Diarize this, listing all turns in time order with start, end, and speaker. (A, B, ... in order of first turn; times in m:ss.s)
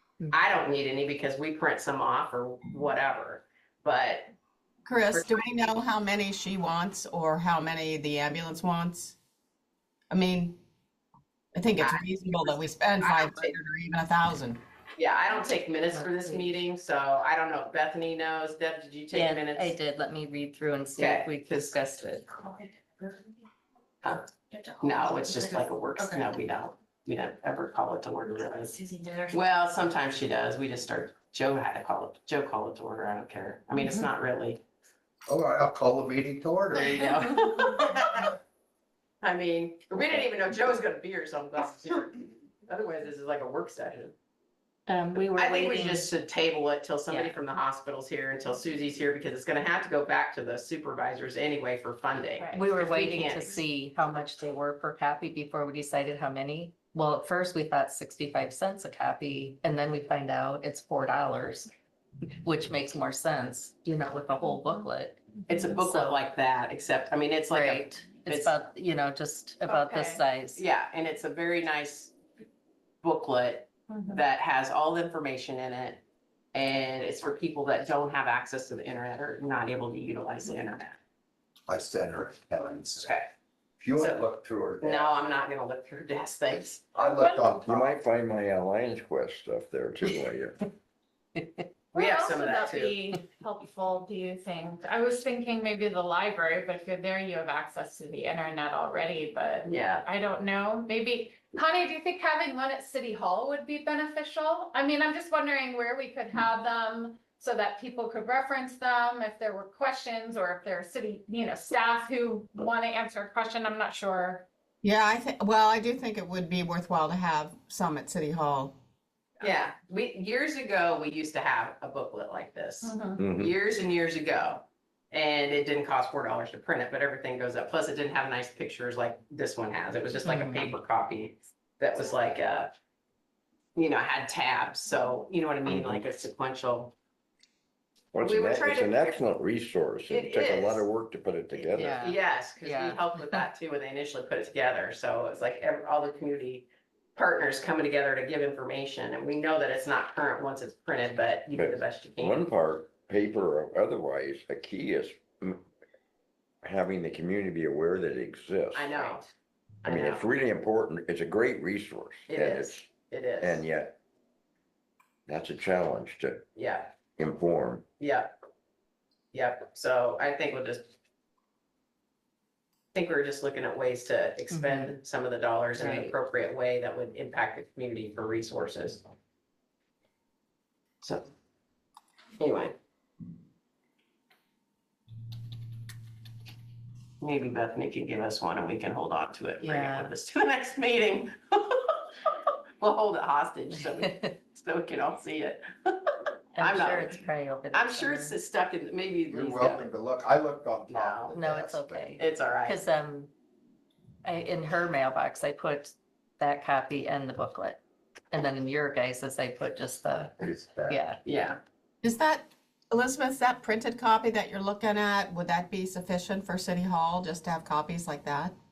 0:00.3-0:04.3 A
0:04.8-0:09.2 B
0:05.1-0:05.7 A
0:10.1-0:10.6 B
0:11.5-0:14.6 B
0:11.8-0:13.6 A
0:15.0-0:19.7 A
0:15.9-0:16.5 C
0:19.1-0:22.6 C
0:21.0-0:21.8 A
0:24.8-0:28.8 A
0:28.8-0:29.2 C
0:29.3-0:34.6 A
0:35.3-0:37.2 D
0:36.7-0:38.4 A
0:39.2-0:44.1 A
0:44.9-0:46.1 C
0:45.4-0:53.6 A
0:47.1-0:47.4 C
0:52.4-0:52.7 E
0:52.5-1:01.7 C
1:02.4-1:05.2 C
1:05.5-1:08.6 A
1:05.7-1:06.2 C
1:07.5-1:10.6 C
1:09.7-1:10.2 E
1:10.6-1:12.1 A
1:13.0-1:16.0 A
1:13.9-1:14.2 E
1:16.5-1:21.0 A
1:21.7-1:23.2 D
1:23.0-1:23.3 A
1:23.8-1:25.1 D
1:24.0-1:24.2 A
1:24.8-1:26.8 A
1:26.9-1:27.9 D
1:27.0-1:27.6 E
1:27.6-1:30.6 F
1:31.9-1:54.5 E
1:31.9-1:33.0 A
1:39.6-1:40.0 A
1:54.8-1:58.7 B
1:59.4-2:12.7 A
2:02.8-2:03.2 E
2:03.2-2:03.5 F
2:10.2-2:10.7 C
2:13.8-2:16.9 A
2:15.6-2:16.0 F
2:18.1-2:22.0 F
2:18.2-2:19.2 A
2:20.1-2:20.8 A
2:21.7-2:23.4 C
2:21.8-2:32.4 A
2:31.5-2:35.6 F
2:36.6-2:39.2 F
2:38.7-2:39.3 A
2:39.8-2:40.2 A
2:39.8-2:42.9 F
2:42.3-2:43.6 A
2:43.4-2:44.0 F
2:45.3-2:46.4 F
2:46.5-2:46.9 A
2:47.2-2:47.8 F
2:48.0-2:48.3 A
2:49.3-2:50.9 A
2:52.9-2:59.0 A
2:54.5-2:55.0 C
2:55.8-2:56.1 C
3:01.0-3:01.3 A
3:02.4-3:02.7 A
3:07.2-3:19.9 A
3:09.6-3:10.1 C
3:16.5-3:18.4 C
3:19.3-3:22.1 D
3:20.9-3:21.4 A
3:21.3-3:23.3 C
3:22.2-3:22.8 A
3:24.2-3:27.8 C
3:28.3-3:31.2 C
3:30.4-3:31.0 D
3:31.2-3:31.6 A
3:32.0-3:38.5 B